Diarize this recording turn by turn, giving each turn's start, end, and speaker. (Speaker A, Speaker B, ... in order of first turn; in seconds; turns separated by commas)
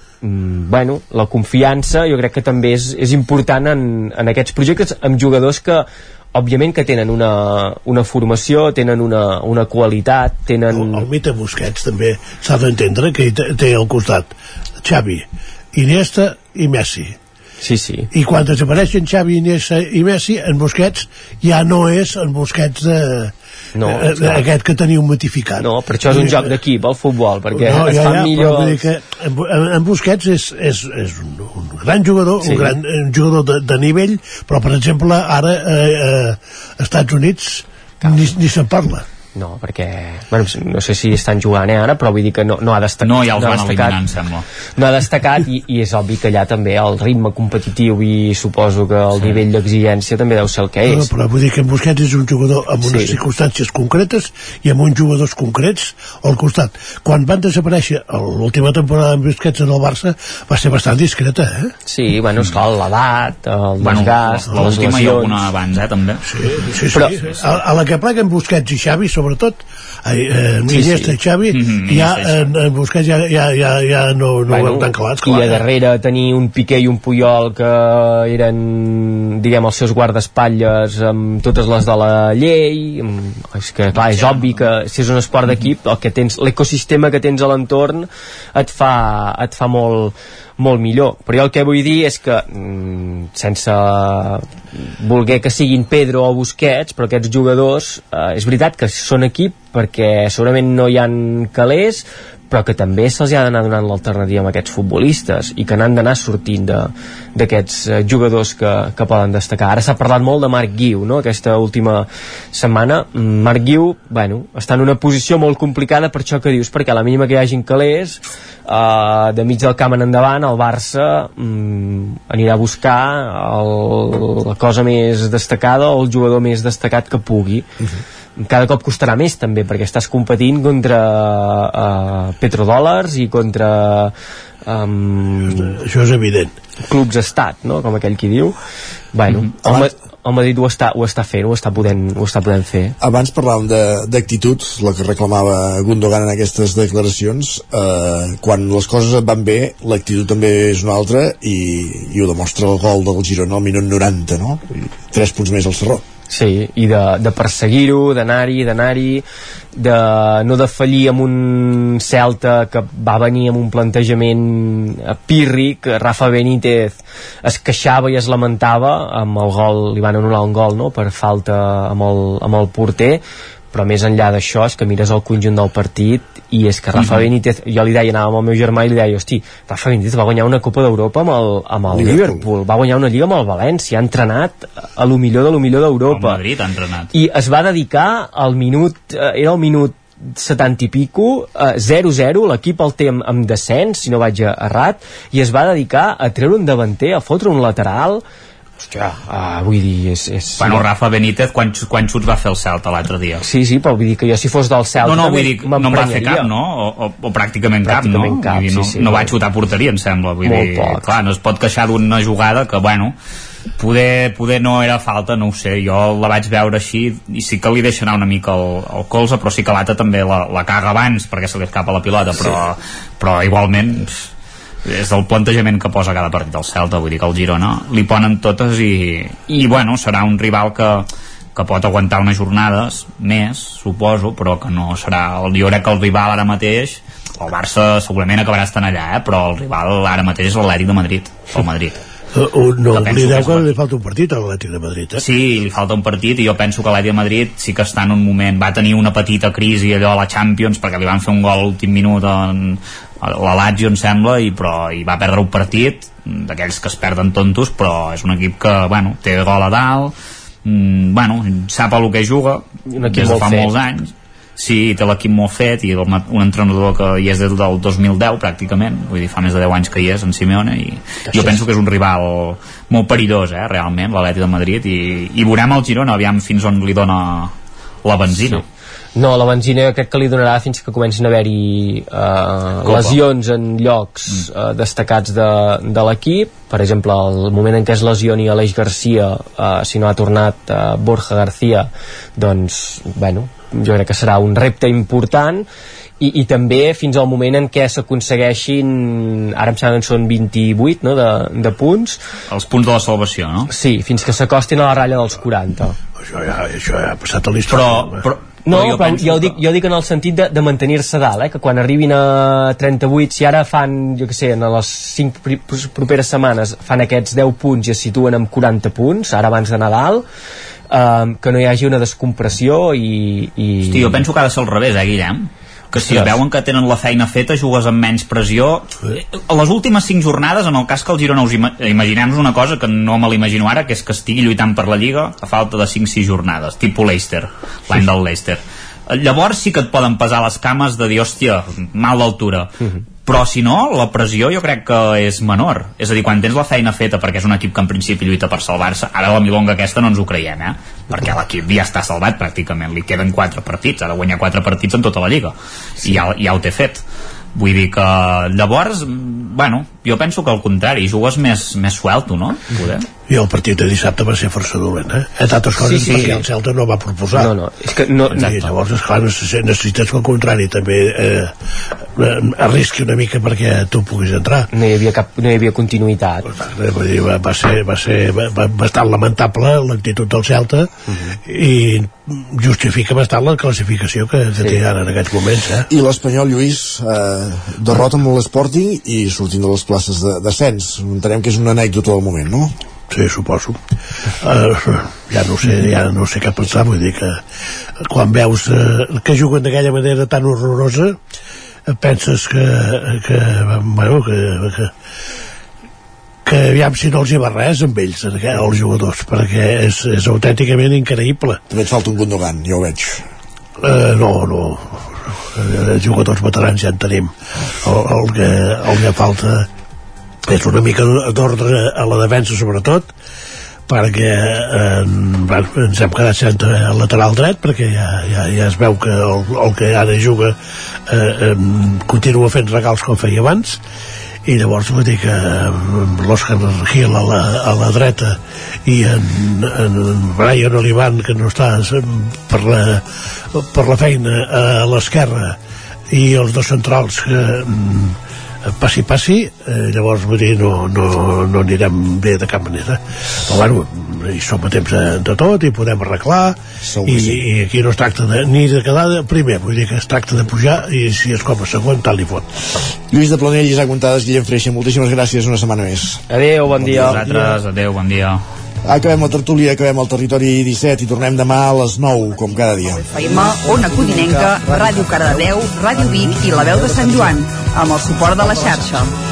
Speaker A: 0.2-11.0, Speaker B: 10.7-14.3, Speaker B: 14.8-17.1, Speaker A: 17.6-18.1, Speaker B: 18.1-26.5, Speaker A: 23.8-24.4, Speaker A: 25.6-28.8, Speaker B: 27.5-39.0, Speaker A: 32.4-32.8, Speaker A: 38.0-38.3, Speaker A: 39.3-44.0, Speaker C: 43.0-44.5, Speaker A: 44.8-51.1, Speaker C: 49.2-49.4, Speaker B: 50.8-61.7, Speaker A: 52.8-53.2, Speaker A: 61.9-65.4, Speaker C: 63.8-66.2, Speaker B: 66.3-75.7, Speaker A: 66.9-67.3, Speaker A: 70.7-71.2, Speaker C: 71.5-72.5, Speaker A: 74.5-127.7, Speaker C: 84.0-84.5, Speaker A: 128.4-134.1, Speaker A: 134.6-135.7, Speaker B: 135.5-136.5, Speaker A: 136.9-138.5, Speaker A: 139.1-142.9, Speaker D: 139.6-139.9, Speaker D: 143.0-156.0, Speaker A: 156.3-186.4, Speaker C: 176.9-177.3, Speaker D: 181.9-182.5, Speaker C: 186.1-187.1, Speaker A: 187.1-198.2, Speaker A: 198.8-200.8, Speaker C: 200.6-203.4, Speaker A: 203.4-206.5, Speaker C: 205.0-213.1, Speaker A: 207.8-209.3, Speaker A: 210.4-211.1, Speaker C: 213.8-224.3, Speaker C: 224.8-242.0, Speaker B: 242.3-245.2, Speaker C: 242.9-243.7, Speaker C: 245.2-278.6, Speaker A: 262.9-263.7, Speaker A: 271.3-271.6, Speaker A: 279.1-295.6, Speaker C: 282.8-283.2, Speaker A: 296.2-302.2, Speaker C: 302.5-303.7, Speaker A: 303.7-305.9, Speaker B: 306.2-308.2, Speaker C: 307.7-309.6, Speaker A: 308.6-320.2, Speaker A: 320.9-324.2, Speaker C: 323.8-357.0, Speaker A: 326.0-326.4, Speaker C: 357.5-363.1, Speaker B: 363.3-367.5, Speaker A: 365.9-366.4, Speaker C: 366.1-366.4, Speaker A: 367.4-368.7, Speaker B: 368.3-371.5, Speaker B: 372.2-374.7, Speaker A: 374.7-376.4, Speaker B: 376.5-380.9, Speaker B: 381.4-385.9, Speaker D: 385.9-392.7, Speaker B: 393.1-393.8, Speaker B: 394.4-397.4, Speaker B: 398.1-401.2, Speaker B: 402.0-404.9, Speaker B: 406.4-411.6, Speaker D: 411.7-413.2, Speaker B: 413.8-415.0, Speaker B: 415.5-419.7, Speaker B: 420.5-423.1, Speaker B: 423.9-430.5, Speaker B: 431.1-433.8, Speaker B: 434.4-443.0, Speaker B: 443.5-445.6, Speaker B: 446.1-448.1, Speaker B: 448.8-462.4, Speaker D: 456.8-457.4, Speaker D: 463.1-467.2, Speaker A: 466.3-467.6, Speaker C: 466.9-468.4, Speaker D: 468.8-473.1, Speaker E: 473.0-479.1